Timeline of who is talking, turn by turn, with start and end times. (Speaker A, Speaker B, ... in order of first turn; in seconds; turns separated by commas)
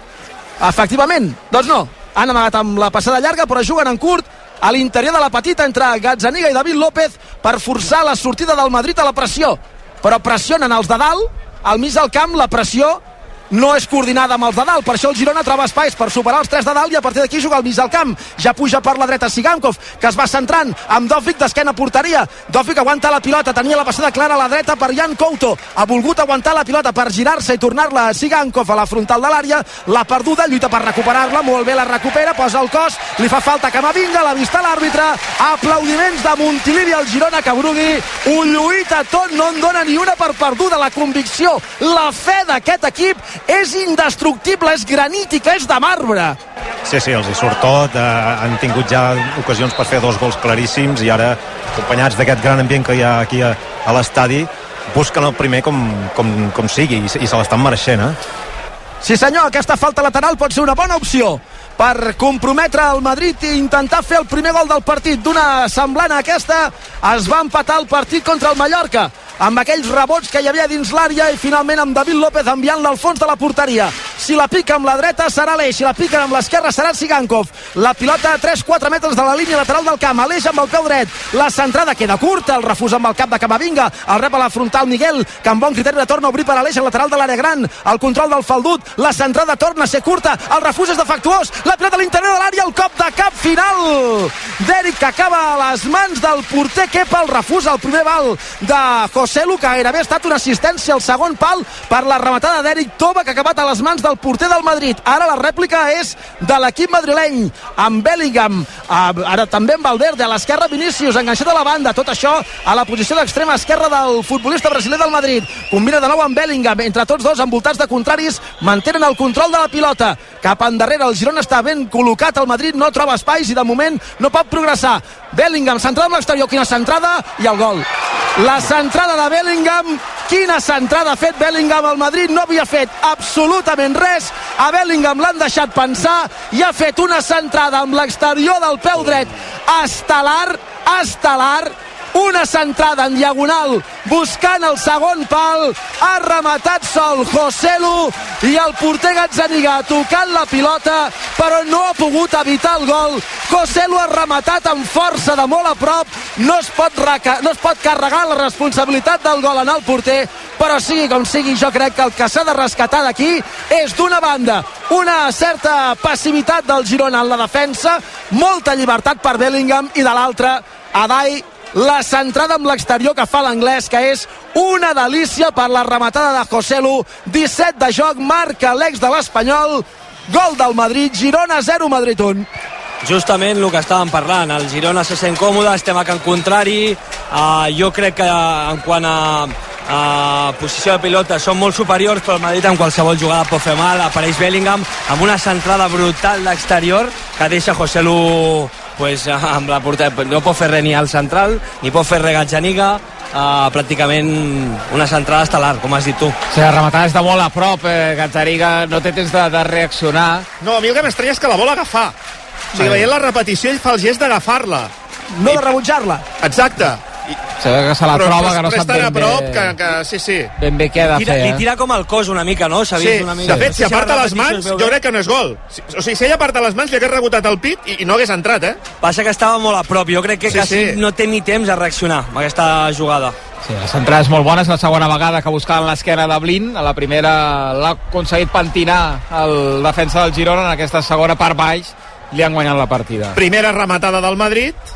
Speaker A: 0.6-46.4, Speaker B: 46.8-58.2, Speaker A: 59.0-182.5, Speaker C: 183.0-206.3, Speaker D: 206.5-210.5, Speaker E: 210.6-212.1, Speaker E: 212.7-214.9, Speaker A: 215.3-216.2, Speaker E: 216.4-217.4, Speaker D: 217.6-219.8, Speaker E: 218.1-220.5, Speaker D: 220.6-221.6, Speaker C: 221.1-225.0, Speaker E: 223.0-228.8, Speaker C: 229.0-233.3, Speaker E: 230.5-231.0, Speaker D: 233.6-243.4, Speaker E: 243.3-244.8